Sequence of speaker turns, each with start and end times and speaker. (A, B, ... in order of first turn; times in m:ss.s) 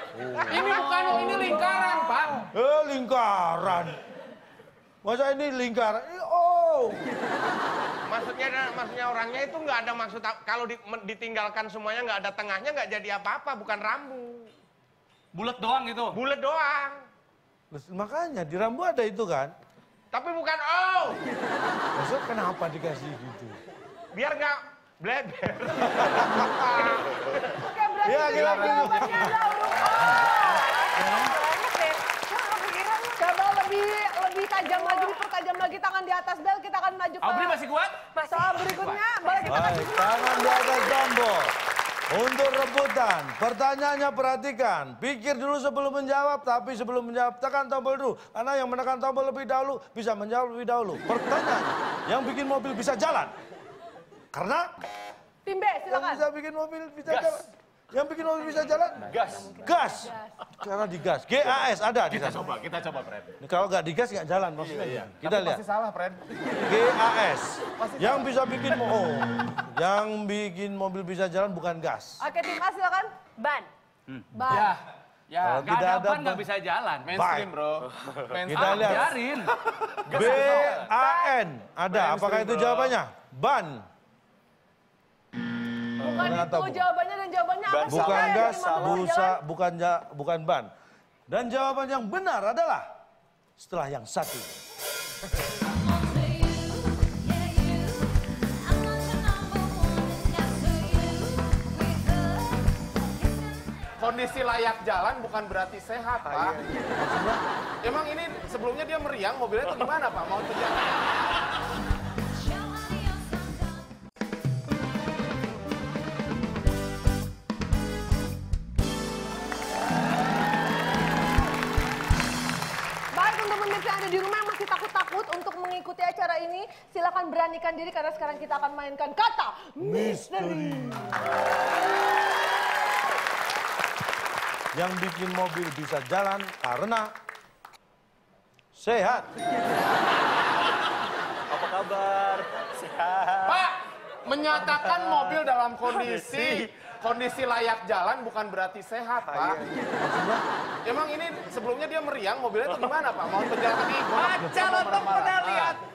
0:00.1-0:00.9 A
0:00.4-0:02.5 B
0:01.0-0:01.9 C
0:02.5-0:04.0 A
0:05.0-0:07.0 A
0:08.1-0:14.5 D
0:15.3-0:16.2 E
0:16.1-0:17.0 D
0:17.7-0:19.5 A
0:20.1-0:21.2 D
0:21.9-0:23.6 A
0:24.1-0:27.6 D
0:25.8-0:26.5 A
0:27.6-0:30.7 C
0:28.0-0:29.4 A
0:28.4-0:29.3 B
0:30.5-0:33.2 F
0:33.2-0:37.6 C
0:34.6-0:35.2 F
0:37.2-0:38.0 E
0:38.1-0:40.2 F
0:38.3-0:41.0 C
0:39.5-0:41.6 A
0:42.1-0:53.3 A
0:54.3-0:54.7 A
0:55.4-0:56.2 C
0:55.9-1:02.4 A
0:57.1-0:57.4 G
0:59.0-0:59.9 G
0:59.8-1:00.4 C
1:02.1-1:03.3 B
1:03.4-1:05.6 A
1:04.6-1:05.0 G
1:04.8-1:06.4 B
1:06.6-1:12.2 A
1:07.8-1:08.3 B
1:12.2-1:13.1 C
1:13.4-1:13.7 F
1:14.1-1:14.6 E
1:14.3-1:14.8 C
1:14.4-1:15.6 B
1:15.4-1:16.4 A
1:15.6-1:17.1 E
1:17.0-1:19.1 B
1:17.1-1:17.5 A
1:18.5-1:19.2 A
1:18.5-1:19.6 E
1:20.1-1:20.9 B
1:20.1-1:23.9 A
1:20.8-1:21.2 C
1:21.9-1:22.9 B
1:26.0-1:29.4 C
1:26.0-1:26.8 A
1:27.6-1:29.2 G
1:27.9-1:30.7 A
1:31.3-1:32.9 A
1:33.6-1:34.6 A
1:44.0-1:46.6 B
1:46.2-1:47.0 G
1:46.9-1:47.4 A
1:47.8-1:51.0 B
2:03.1-2:11.3 C
2:09.8-2:11.3 A
2:14.7-2:17.1 A
2:18.7-2:19.3 A
2:21.5-2:23.7 G
2:23.4-2:29.6 B
2:24.7-2:25.4 G
2:25.9-2:26.7 G
2:29.2-2:29.9 G
2:30.0-2:30.4 A
2:30.8-2:35.8 B
2:34.1-2:35.8 E